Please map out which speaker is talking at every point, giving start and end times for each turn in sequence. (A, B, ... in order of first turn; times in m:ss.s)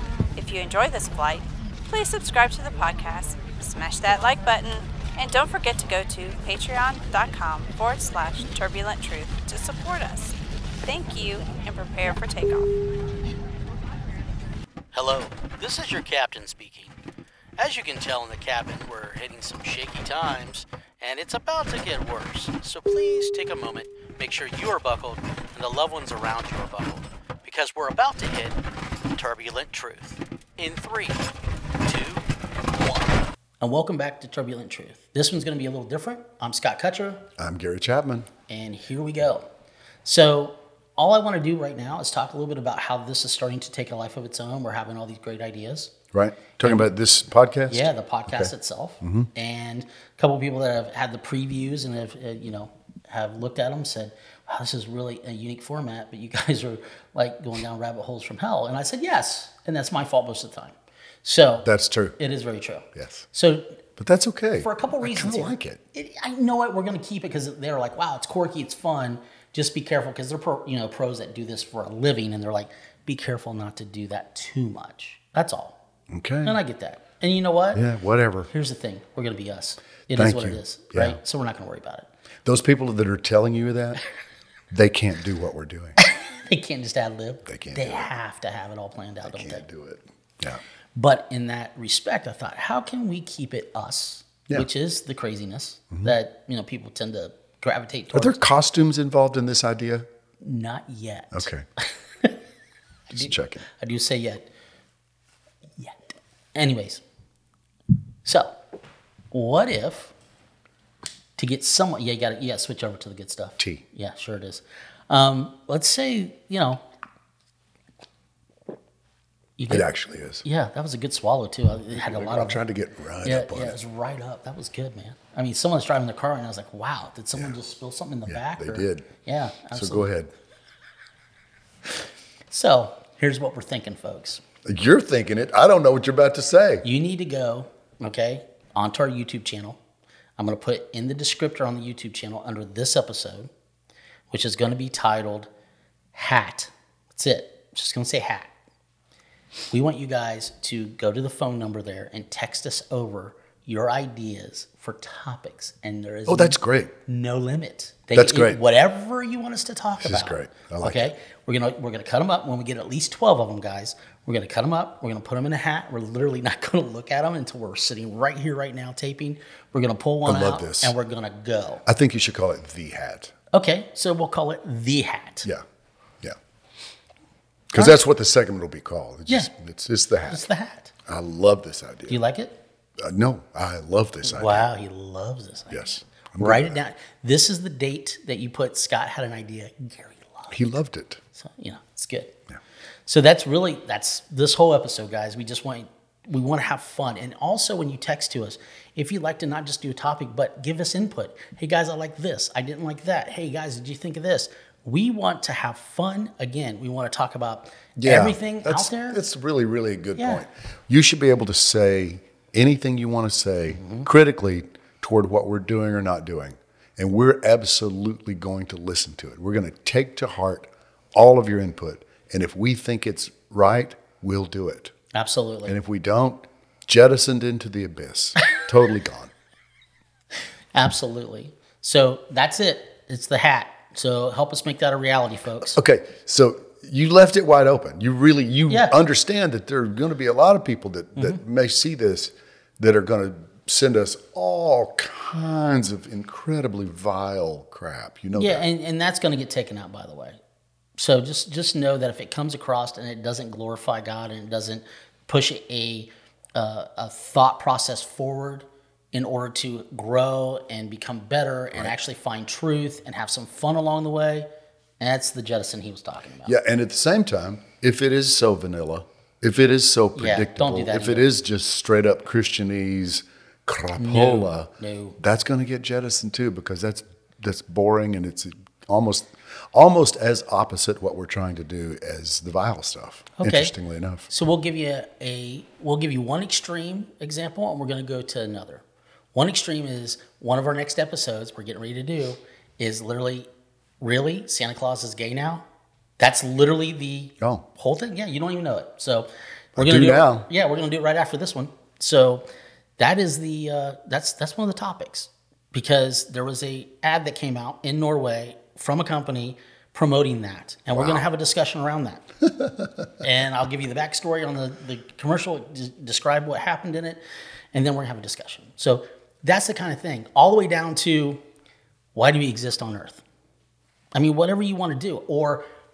0:00.3-0:12.7 A
0:14.9-0:17.0 B
0:17.6-0:28.6 B
0:29.1-0:31.3 B
0:31.8-0:37.3 B
0:37.4-0:38.3 C
0:38.5-0:39.4 B
0:40.0-0:46.0 B
0:46.1-0:48.5 C
0:46.6-0:46.9 B
0:47.7-1:03.8 B
0:49.0-0:49.3 C
1:01.6-1:02.2 C
1:02.9-1:03.2 C
1:04.0-1:05.8 C
1:04.6-1:15.8 B
1:16.1-1:16.6 C
1:16.4-1:17.8 B
1:17.7-1:18.5 C
1:18.5-1:22.1 B
1:20.1-1:21.2 C
1:22.4-1:24.0 C
1:24.7-1:26.0 C
1:26.0-1:29.6 B
1:27.4-1:28.1 C
1:29.2-1:30.6 C
1:30.9-1:38.4 B
1:38.1-1:40.0 C
1:40.4-1:42.4 B
1:41.3-1:41.6 C
1:43.1-1:44.5 B
1:43.1-1:43.6 C
1:46.5-1:47.0 B
1:48.2-1:48.6 B
1:49.3-1:50.1 B
1:51.4-1:56.8 B
1:59.6-1:59.9 B
1:59.7-2:00.4 C
2:00.4-2:02.6 B
2:02.0-2:03.8 C
2:03.2-2:10.1 B
2:08.3-2:09.1 C
2:09.7-2:10.3 C
2:12.5-2:14.4 B
2:14.6-2:16.8 C
2:16.8-2:19.8 B
2:20.4-2:23.5 B
2:24.3-2:25.5 B
2:26.1-2:28.5 B
2:29.7-2:51.8 B
2:36.3-2:36.9 C
2:38.1-2:38.6 C
2:40.0-2:41.1 C
2:50.2-2:50.9 C
2:51.8-2:53.3 C
2:53.5-2:55.5 B
2:57.7-3:00.4 C
2:57.7-2:58.0 B
3:00.2-3:00.9 B
3:01.1-3:02.2 C
3:02.1-3:02.6 B
3:03.0-3:04.6 C
3:04.2-3:10.6 B
3:05.7-3:06.8 C
3:10.5-3:11.2 C
3:11.3-3:12.4 B
3:13.0-3:29.2 B
3:28.0-3:44.9 C
3:30.2-3:30.4 B
3:33.7-3:34.1 B
3:45.1-3:45.7 B
3:45.6-3:49.3 C
3:50.7-3:55.8 B
3:55.6-4:08.6 C
3:58.7-3:59.0 B
4:08.3-4:10.4 B
4:11.0-4:24.5 B
4:25.0-4:26.5 B
4:26.4-4:44.3 C
4:30.1-4:31.3 B
4:34.0-4:35.2 B
4:43.4-4:43.7 B
4:44.3-4:48.8 B
4:49.3-4:53.5 B
4:54.0-4:55.6 B
4:56.2-5:02.4 B
4:59.8-5:00.5 C
5:03.0-5:12.4 B
5:13.2-5:17.2 B
5:17.7-5:21.4 B
5:22.1-5:23.2 B
5:24.1-5:25.6 B